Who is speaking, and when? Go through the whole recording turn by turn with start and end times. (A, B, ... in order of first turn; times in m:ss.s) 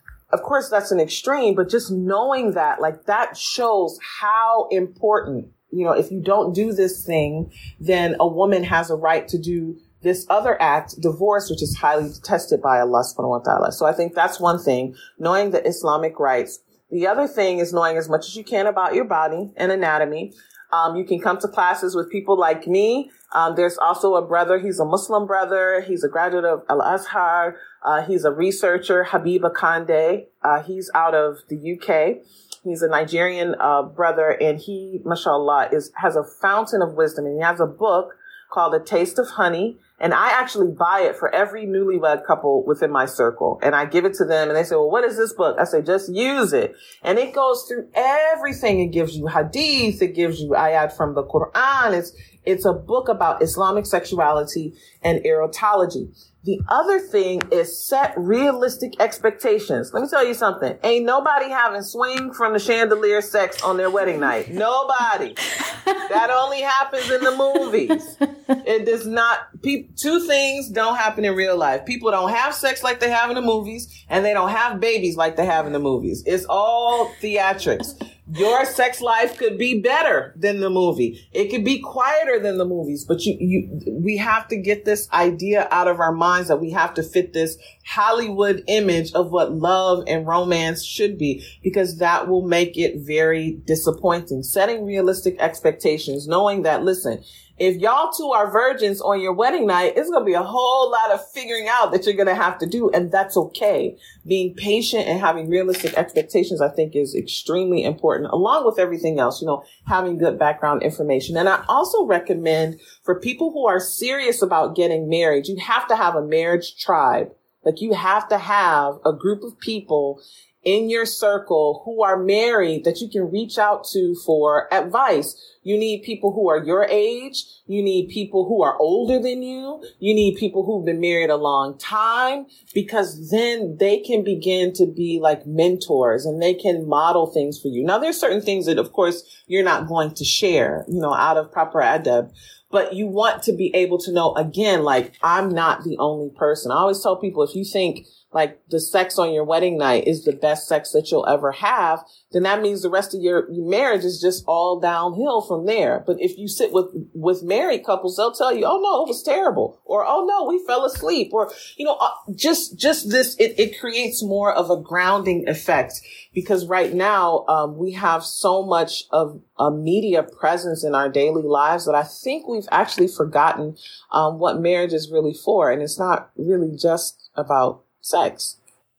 0:00.3-2:58.6 A